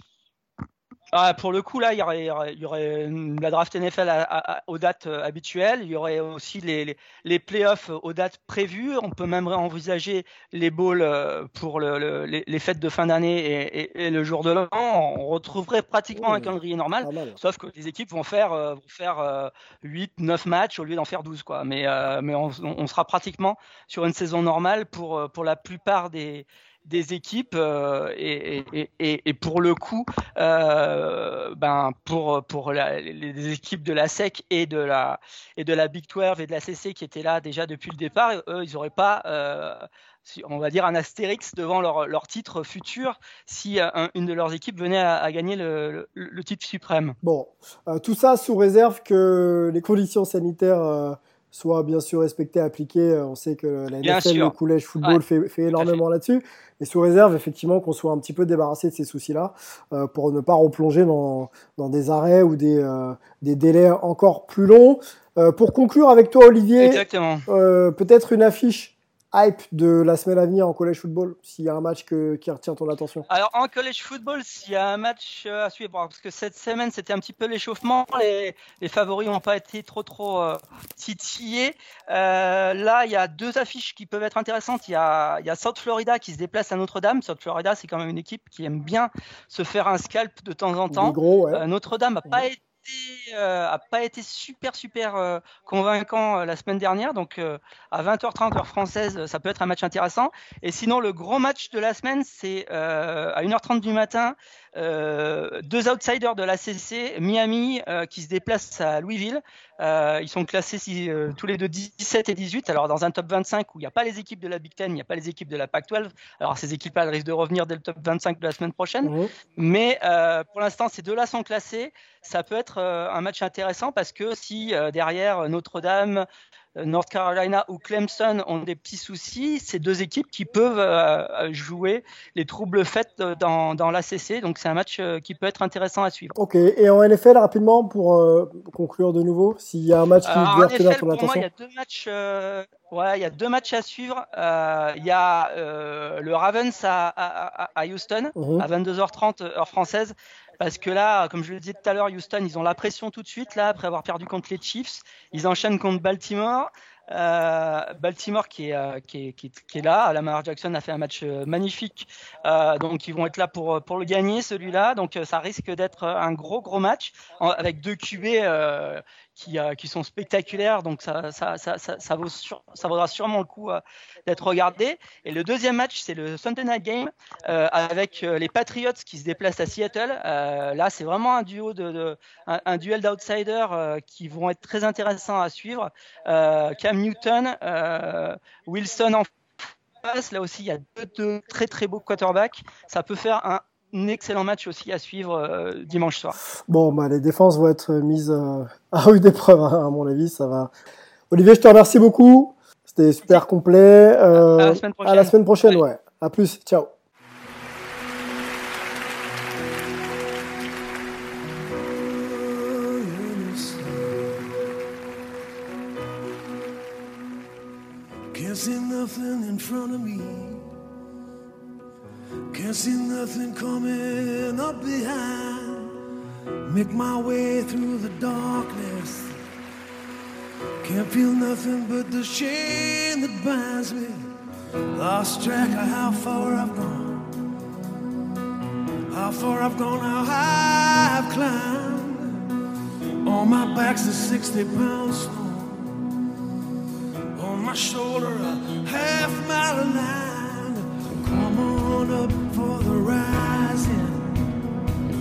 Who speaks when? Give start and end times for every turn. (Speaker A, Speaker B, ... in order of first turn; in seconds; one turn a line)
Speaker A: 1.1-47.1
Speaker B: 16.1-17.4
Speaker B: 47.2-73.2
Speaker A: 54.0-56.0
Speaker A: 66.8-67.5
Speaker A: 73.3-126.2
Speaker B: 90.9-91.6
Speaker B: 119.0-119.3
Speaker A: 126.8-136.3
Speaker B: 136.3-141.4
Speaker A: 140.2-189.3
Speaker B: 148.3-148.7
Speaker A: 190.0-196.3
Speaker B: 196.7-200.7
Speaker B: 201.3-206.9
Speaker A: 204.3-205.8
Speaker C: 211.9-214.4
Speaker C: 218.3-220.7
Speaker C: 222.5-225.9
Speaker C: 226.7-229.3
Speaker C: 230.8-234.3
Speaker C: 234.9-237.3
Speaker C: 239.1-242.4
Speaker C: 243.2-245.9
Speaker C: 247.3-254.4